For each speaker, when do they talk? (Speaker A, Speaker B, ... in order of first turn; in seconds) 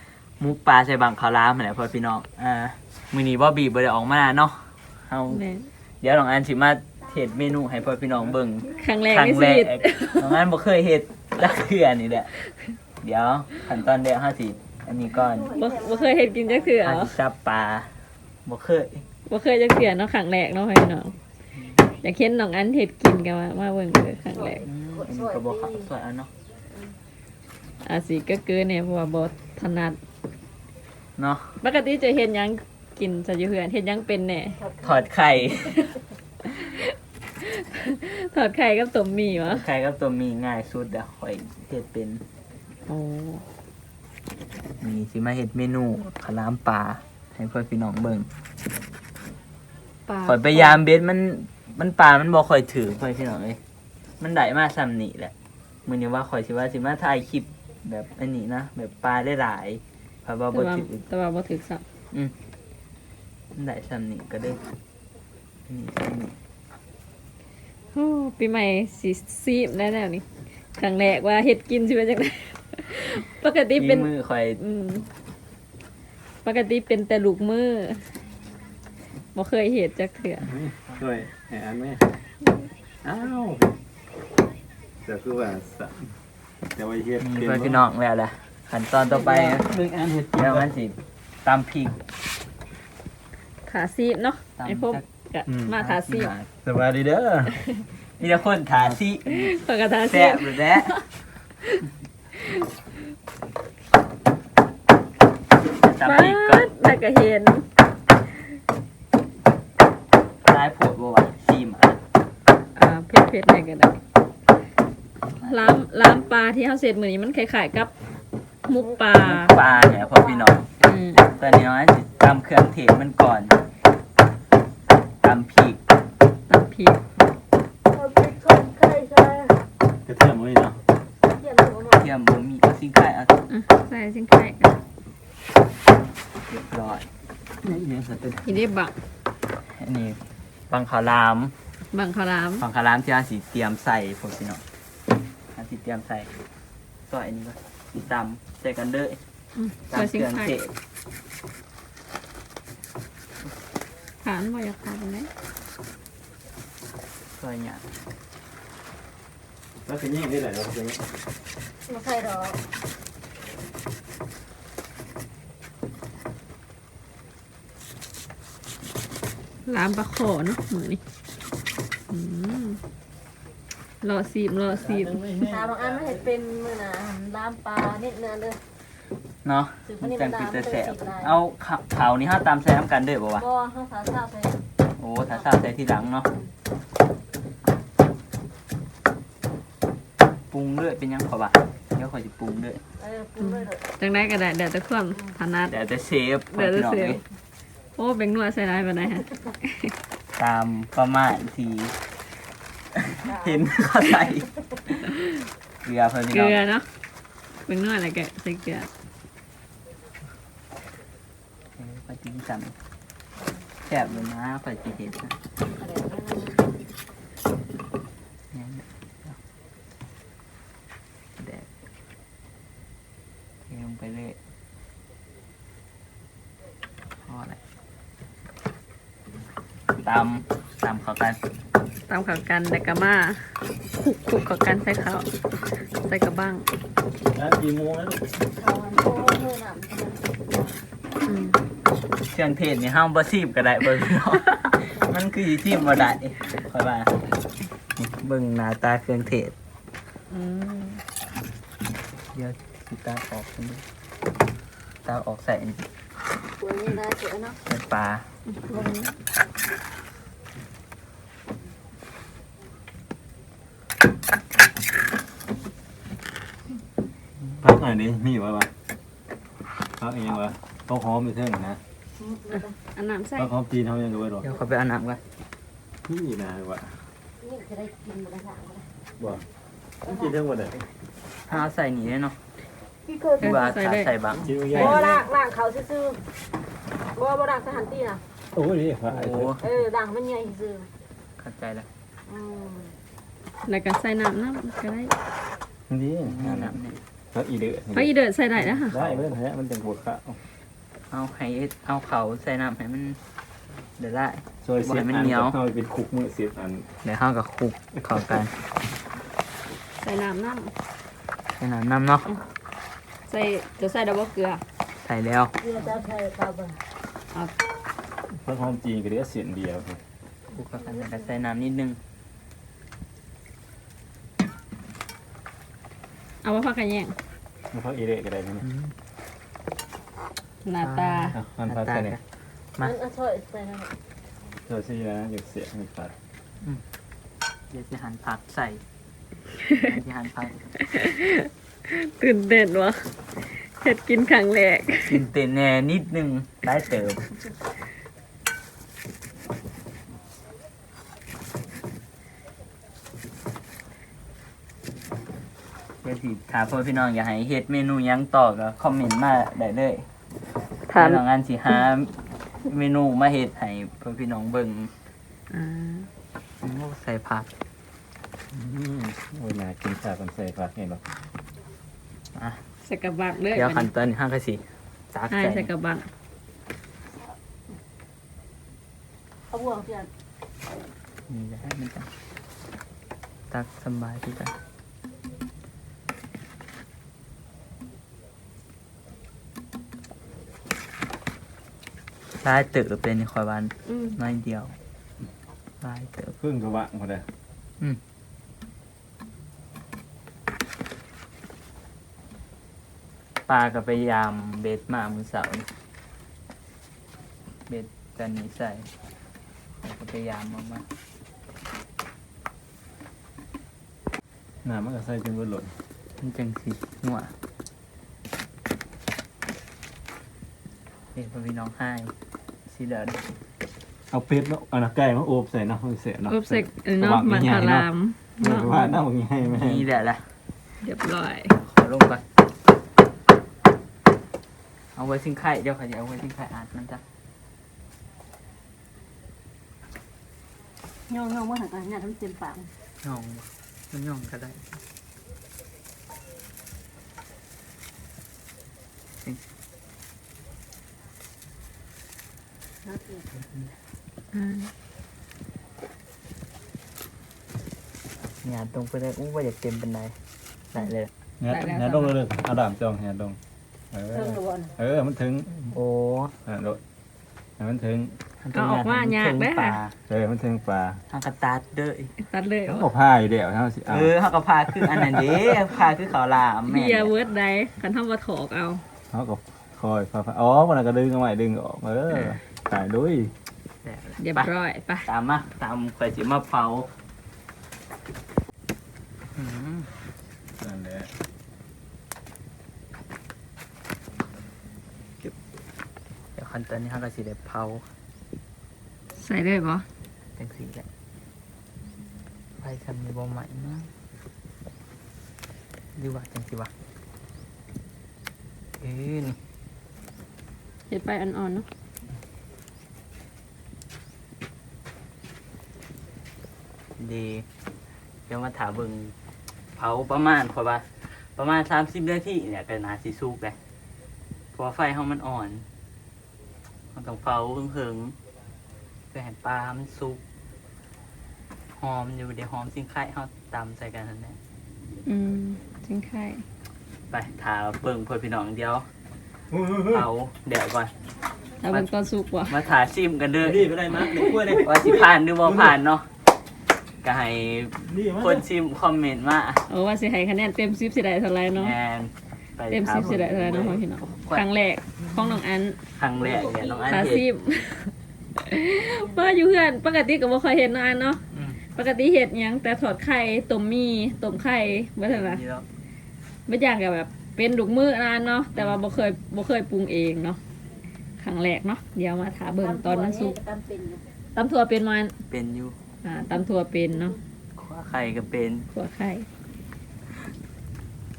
Speaker A: 0.4-5.4, 6.0-12.3, 13.0-15.5, 16.8-19.0, 21.6-21.8, 24.6-26.3, 31.2-31.6, 34.8-35.9, 39.4-42.2, 44.8-48.3, 50.2-53.6, 54.2-55.3, 55.9-61.0, 63.5-64.6, 65.7-66.3, 73.8-74.6, 87.2-89.7, 90.3-92.0, 94.6-95.0, 95.8-96.5, 98.2-101.0, 105.8-106.7, 110.4-112.0, 115.4-115.8, 119.2-123.6, 125.2-125.8, 131.9-133.4, 136.5-137.1, 139.6-141.5, 142.6-144.6, 145.5-146.3, 147.1-149.2, 149.9-150.7, 157.4-157.8, 179.4-183.4, 185.0-186.3, 190.4-192.8, 195.7-197.2, 200.4-202.0, 203.0-205.1, 205.8-206.6, 211.8-212.8, 213.8-215.3, 218.5-219.4, 221.4-221.7, 223.7-224.4, 227.2-227.6, 229.9-231.4, 242.3-247.2, 248.0-249.5, 252.3-253.8, 255.1-255.8, 257.7-258.3, 274.4-275.2, 281.5-282.4, 283.4-284.5, 289.1-289.7, 291.4-291.9, 296.2-297.0, 298.6-299.2, 301.1-303.2, 304.0-305.6, 307.0-308.5, 311.6-312.3, 315.0-315.5, 320.5-322.0, 328.6-328.9, 330.8-332.2, 337.7-338.8, 339.8-340.6, 345.1-347.2, 356.0-360.1, 361.0-364.9, 366.6-367.5, 372.4-372.6, 373.5-375.7, 381.3-382.1, 383.5-384.6, 392.4-394.7, 395.8-396.4, 403.5-405.7, 407.7-408.9, 409.8-410.9, 416.2-417.3, 421.1-422.1, 422.7-423.2, 429.5-430.3, 431.6-432.2, 434.9-437.0, 443.0-444.8, 453.4-453.7, 458.4-460.2, 460.7-461.1, 465.7-466.4, 468.4-469.9, 471.1-472.1, 473.9-477.1, 483.8-484.5, 485.1-486.9, 489.4-489.9, 496.4-497.9, 500.4-500.9, 502.6-503.9, 506.0-506.7, 508.8-509.4, 517.0-517.5, 518.3-519.1, 519.8-523.6, 524.5-525.7, 526.9-528.2, 529.1-530.2, 531.8-534.4, 537.1-538.9, 539.9-540.9, 542.5-543.7, 544.6-546.1, 547.0-549.6, 551.5-554.5, 555.0-555.4, 556.0-557.2, 561.3-561.6, 565.0-565.7, 575.3-575.8, 577.6-578.7
Speaker B: 5.3-5.7, 8.7-10.4, 15.5-17.2, 19.3-21.2, 21.9-24.7, 27.8-30.0, 31.6-34.6, 36.4-39.6, 42.9-43.4, 50.1-50.8, 60.5-61.9, 67.9-75.1, 76.4-78.1, 79.3-80.5, 93.7-96.3, 99.3-101.1, 106.0-107.7, 112.8-114.0, 115.4-117.9, 118.7-119.5, 120.8-121.3, 126.5-127.0, 133.5-134.8, 138.4-138.9, 141.9-142.6, 149.6-150.5, 154.2-155.3, 169.7-171.0, 172.1-172.8, 174.0-175.2, 193.4-195.7, 196.5-197.2, 198.0-199.9, 206.3-206.9, 207.7-208.9, 232.1-235.3, 235.9-236.7, 241.3-241.6, 258.5-259.0, 272.9-273.5, 283.4-284.1, 293.6-295.1, 297.9-299.0, 310.0-310.7, 313.3-314.6, 326.4-327.2, 330.6-331.4, 340.9-343.1, 343.6-345.2, 360.9-361.2, 365.5-366.1, 372.8-373.9, 375.3-376.1, 393.9-394.1, 426.3-429.0, 430.8-431.6, 454.3-454.7, 461.5-462.1, 468.5-469.8, 472.2-472.9, 476.7-478.8, 484.2-485.1, 499.2-499.9, 510.9-511.7, 535.0-536.5, 541.6-542.5, 549.7-551.8, 552.7-555.8, 556.9-561.2, 561.7-565.4, 566.5-570.4, 571.2-573.4, 574.4-575.1, 576.0-577.2, 578.7-579.3
Speaker C: 15.2-16.8, 24.3-25.9, 34.6-35.0, 118.8-119.0, 119.8-120.5, 127.9-129.6, 131.3-132.1, 161.9-162.6, 175.4-178.6, 179.8-181.4, 183.4-184.6, 193.0-193.8, 203.3-203.6, 215.7-216.6, 238.5-240.4, 250.3-251.0, 256.6-257.6, 272.2-272.8, 277.4-278.9, 283.1-283.5, 284.7-286.2, 287.1-288.2, 289.6-290.9, 292.3-292.9, 315.6-316.8, 332.8-333.9, 379.5-380.1, 441.1-442.7, 452.8-453.3, 464.1-464.7, 556.3-556.8, 572.6-574.0
Speaker D: 80.5-82.1, 83.0-83.8, 85.0-86.1, 86.8-87.8, 89.6-90.7, 95.5-95.8, 96.6-97.6, 130.1-130.8, 137.6-138.6, 159.8-161.1, 174.7-176.2, 237.3-238.2, 267.6-268.7, 270.0-271.8, 273.4-274.6, 276.1-277.1, 279.2-279.4, 280.0-280.8, 284.4-285.2, 288.5-289.6, 295.9-296.8, 297.3-298.1, 298.9-300.4, 304.6-306.9, 318.3-320.0, 327.7-328.6, 331.3-332.2, 334.7-336.1, 368.5-371.0, 396.4-397.3, 414.6-415.7, 424.1-427.9, 428.4-429.9, 461.4-463.4, 463.9-465.7, 466.4-466.8, 467.6-468.2, 470.1-471.0, 472.7-474.1, 474.8-475.6, 479.1-483.3, 490.6-491.1, 539.5-540.0, 543.4-545.8, 547.8-548.5